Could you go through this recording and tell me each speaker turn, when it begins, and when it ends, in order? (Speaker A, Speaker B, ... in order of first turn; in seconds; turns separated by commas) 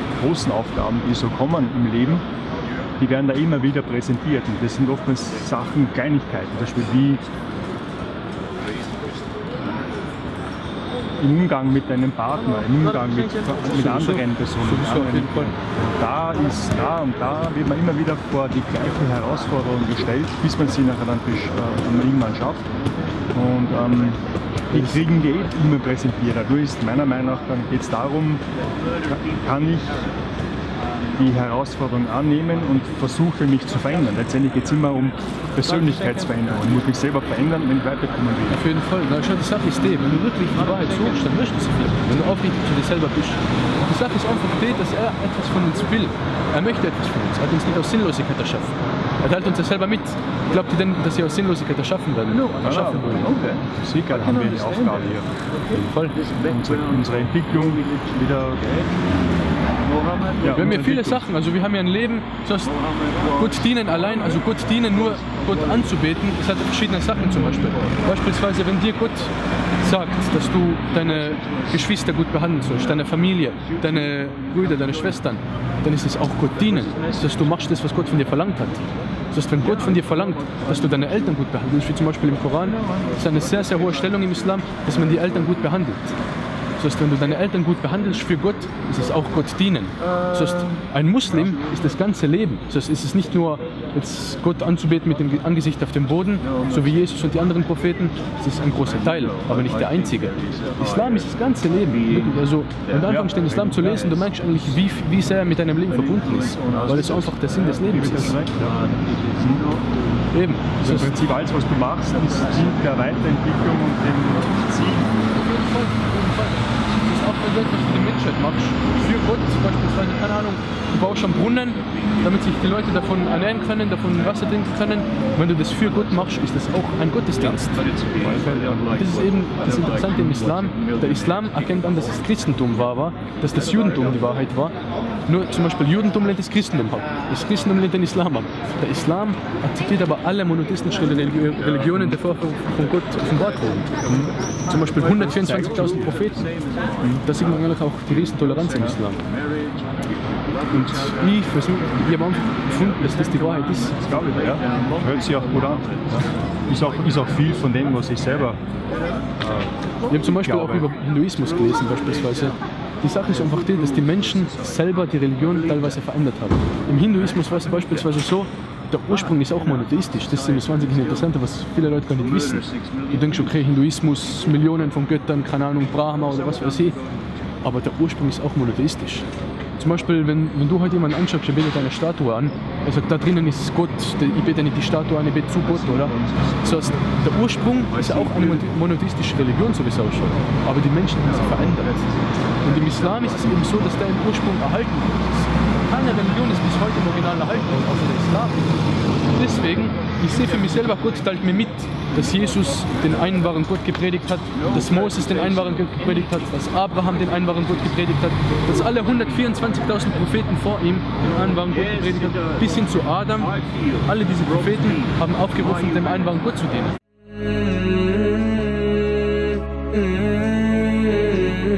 Speaker A: 0.2-2.2, Speaker A: 3.0-7.2, Speaker A: 11.2-22.6, Speaker B: 13.5-15.5, Speaker A: 23.4-28.4, Speaker B: 24.7-25.0, Speaker A: 29.0-30.0, Speaker A: 31.2-38.6, Speaker B: 38.5-53.4, Speaker A: 52.6-55.3, Speaker B: 55.7-56.2, Speaker A: 56.4-58.8, Speaker A: 60.3-61.2, Speaker B: 60.5-86.2, Speaker B: 86.8-108.4, Speaker A: 103.0-103.8, Speaker A: 106.3-109.7, Speaker B: 110.3-111.2, Speaker A: 110.8-115.2, Speaker B: 115.3-128.0, Speaker A: 128.1-129.1, Speaker B: 128.9-134.8, Speaker B: 135.3-143.9, Speaker A: 141.9-142.2, Speaker A: 144.1-144.3, Speaker B: 144.7-146.5, Speaker A: 145.8-146.1, Speaker A: 147.0-147.2, Speaker B: 147.2-149.2, Speaker B: 150.7-154.0, Speaker A: 153.9-158.6, Speaker A: 159.4-159.7, Speaker B: 160.1-177.0, Speaker A: 160.3-160.9, Speaker B: 177.6-192.0, Speaker B: 192.6-217.0, Speaker B: 217.8-218.6, Speaker B: 220.1-220.3, Speaker B: 220.9-221.5